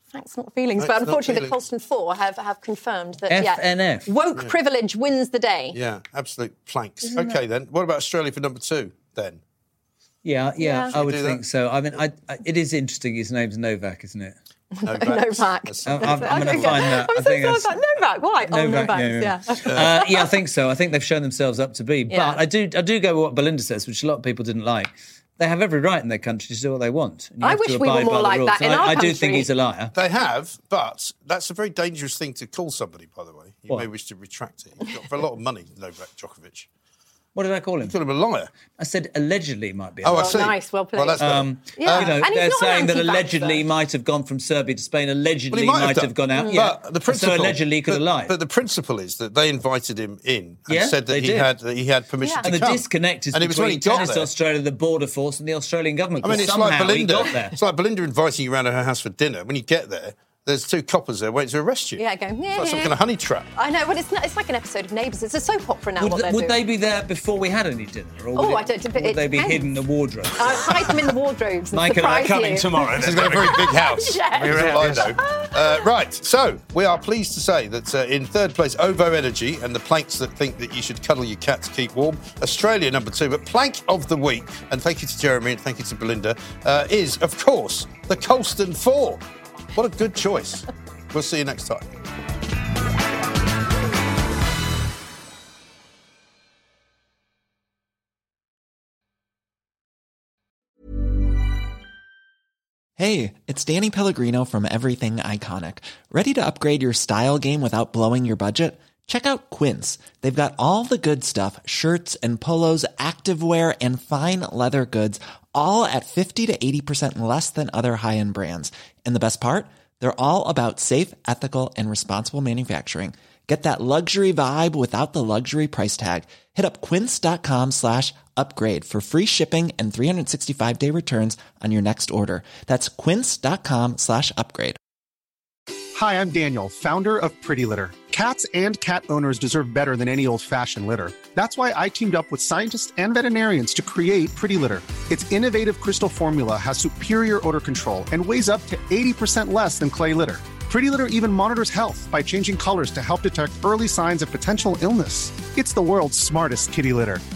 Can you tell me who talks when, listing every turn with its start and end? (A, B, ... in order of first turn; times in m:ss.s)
0:00.1-0:05.8 A
0:00.8-0:01.6 B
0:03.3-0:04.1 C
0:05.7-0:09.4 B
0:10.2-0:14.4 C
0:10.6-0:11.0 A
0:10.9-0:11.4 B
0:14.7-0:20.3 A
0:14.8-0:17.0 B
0:15.9-0:17.8 C
0:18.5-0:29.9 C
0:19.7-0:19.9 B
0:22.1-0:22.4 A
0:27.4-0:29.5 A
0:30.0-0:36.7 B
0:37.4-0:38.0 C
0:37.8-0:38.5 B
0:38.8-0:40.5 C
0:40.0-0:42.2 B
0:40.1-0:41.2 A
0:41.2-0:48.4 C
0:41.8-0:43.6 A
0:45.5-0:54.3 B
0:50.7-0:51.5 C
0:52.2-0:52.5 A
0:52.4-0:57.6 C
0:56.2-1:02.0 B
1:02.0-1:02.9 A
1:02.5-1:03.5 B
1:03.6-1:06.6 A
1:06.0-1:11.2 C
1:08.4-1:09.7 A
1:10.4-1:15.9 A
1:11.7-1:13.8 C
1:13.0-1:29.2 B
1:14.4-1:15.1 C
1:29.7-1:31.9 B
1:43.0-2:14.8 D
2:15.9-2:37.2 E